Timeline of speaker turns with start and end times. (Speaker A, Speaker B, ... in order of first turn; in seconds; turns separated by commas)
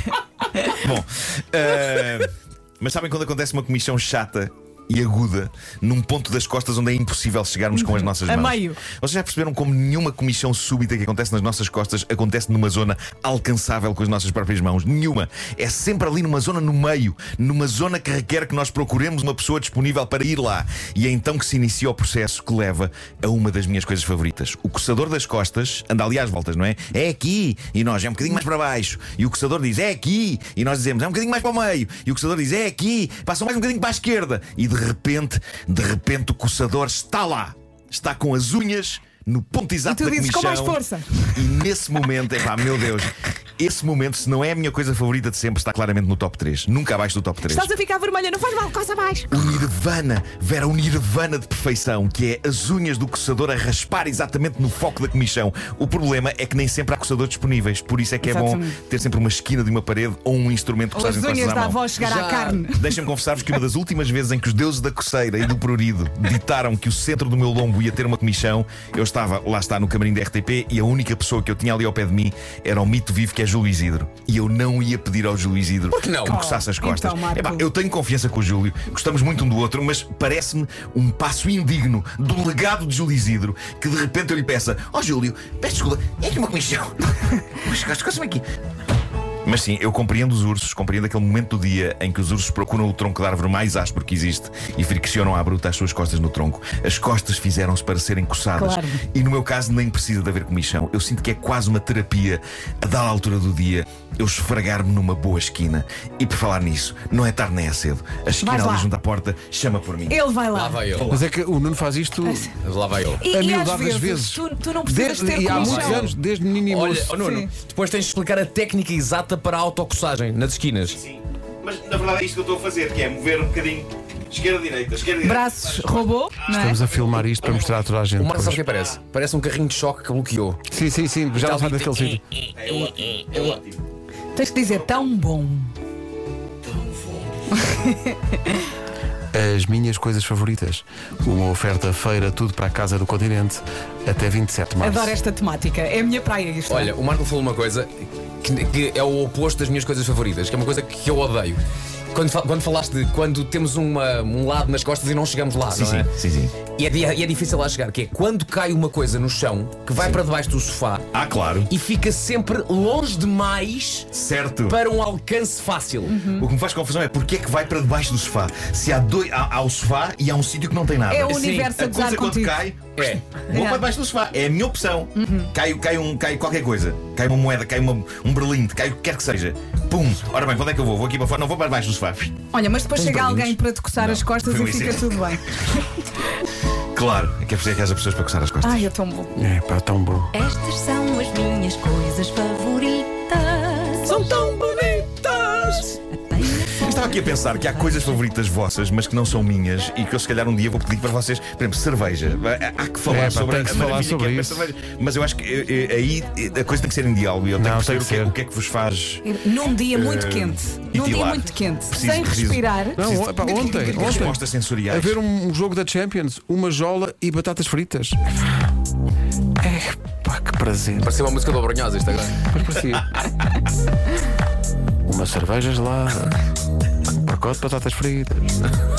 Speaker A: 0.7-40.8, Speaker B: 7.8-8.8, Speaker B: 39.9-41.5, Speaker A: 41.4-47.7, Speaker B: 47.5-49.4, Speaker A: 49.3-62.0, Speaker B: 58.2-58.8, Speaker B: 60.9-63.0, Speaker C: 62.0-62.6, Speaker A: 62.7-88.4, Speaker C: 75.9-76.4, Speaker B: 76.2-77.7, Speaker A: 89.5-110.2, Speaker B: 98.6-99.0, Speaker B: 108.4-108.9, Speaker B: 110.1-111.0, Speaker C: 110.5-111.2, Speaker A: 110.9-111.2, Speaker D: 111.1-112.5, Speaker B: 112.2-112.5, Speaker C: 112.6-113.3, Speaker B: 113.2-116.1, Speaker D: 113.3-117.2, Speaker C: 115.4-121.0, Speaker B: 117.2-117.5, Speaker A: 120.8-127.5, Speaker B: 125.2-126.8, Speaker D: 126.5-128.6, Speaker C: 128.2-130.6, Speaker D: 130.7-132.2, Speaker C: 131.4-132.2, Speaker A: 132.6-133.8, Speaker C: 133.2-133.4, Speaker B: 134.3-135.8, Speaker B: 137.6-138.5, Speaker D: 139.3-145.2, Speaker B: 144.8-146.9, Speaker C: 146.7-151.6, Speaker C: 152.1-156.1, Speaker A: 155.7-156.6, Speaker C: 156.6-161.1, Speaker A: 161.1-161.7, Speaker C: 161.7-164.1, Speaker A: 164.1-164.8, Speaker C: 164.7-166.2, Speaker B: 166.1-166.5, Speaker A: 166.3-182.4, Speaker B: 171.1-172.6, Speaker C: 171.2-171.7, Speaker C: 173.0-173.4, Speaker B: 173.5-173.8, Speaker B: 175.2-175.5, Speaker B: 182.5-185.6, Speaker C: 183.0-183.6, Speaker A: 184.0-185.3, Speaker A: 186.9-188.9, Speaker B: 188.6-189.3, Speaker D: 189.3-190.3, Speaker E: 190.3-194.4, Speaker B: 194.1-195.9, Speaker E: 196.1-198.2, Speaker A: 196.8-215.2, Speaker D: 203.1-204.7, Speaker D: 207.6-208.3, Speaker B: 209.2-214.3, Speaker D: 213.0-218.2, Speaker D: 219.6-221.1, Speaker C: 221.0-222.4, Speaker D: 222.5-223.2, Speaker D: 225.1-226.3, Speaker D: 227.2-228.5